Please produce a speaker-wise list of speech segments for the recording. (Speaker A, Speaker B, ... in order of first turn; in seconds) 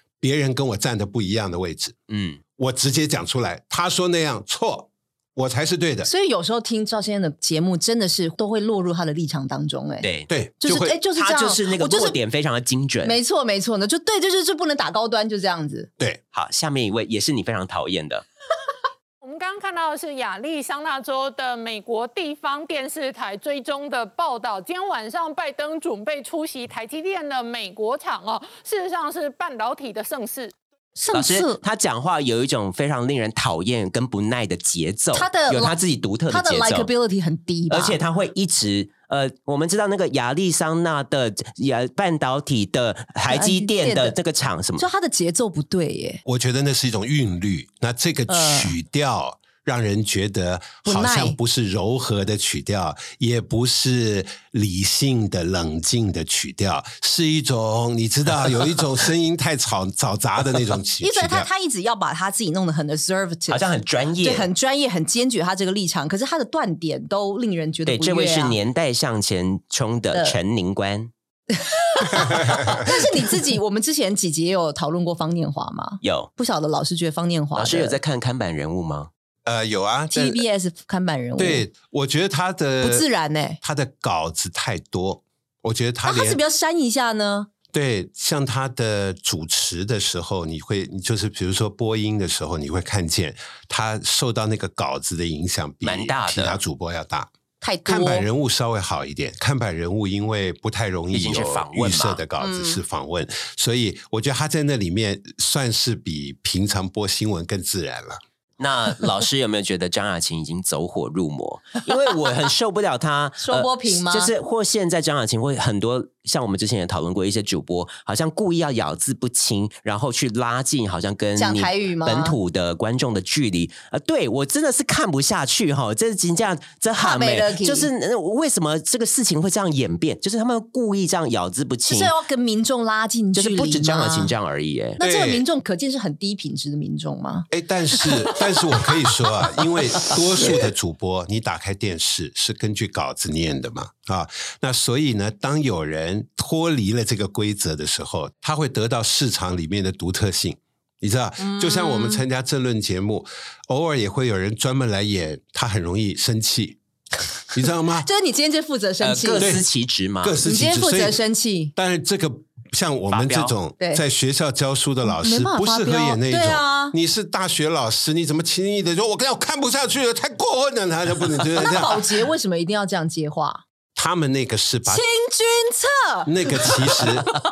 Speaker A: 0.2-1.9, 2.6-6.1, 10.3-10.9, 46.2-61.5, 72.2-72.8, 79.4-80.4, 81.4-83.0, 83.6-86.4, 87.7-97.3, 97.8-108.2, 135.0-135.4, 137.5-156.8, 157.5-158.1, 159.4-159.6, 160.2-161.2, 161.7-172.0, 173.9-175.0, 176.2-177.3
Speaker B: 2.1-2.4, 10.0-13.2, 16.3-18.2, 31.1-36.9, 37.7-44.9, 63.5-64.5, 67.8-71.1, 76.0-76.3, 77.5-79.1, 95.8-96.6, 101.1-102.2, 108.6-132.1, 133.3-135.0, 159.0-160.4, 163.1-163.5
Speaker C: 6.0-10.1, 10.6-12.2, 13.0-15.9, 31.0-31.6, 35.1-35.8, 36.3-38.0, 43.3-44.1, 44.8-46.2, 48.3-48.7, 50.9-51.4, 61.0-68.6, 71.6-78.0, 80.1-81.7, 82.8-83.6, 86.0-87.5, 97.6-98.3, 102.4-102.8, 113.4-114.3, 121.4-122.3, 127.0-127.9, 131.9-134.3, 135.0-137.5, 151.4-152.2, 158.0-159.5, 160.4-161.7, 165.0-166.9, 171.6-173.6, 174.9-177.4
Speaker D: 19.2-30.5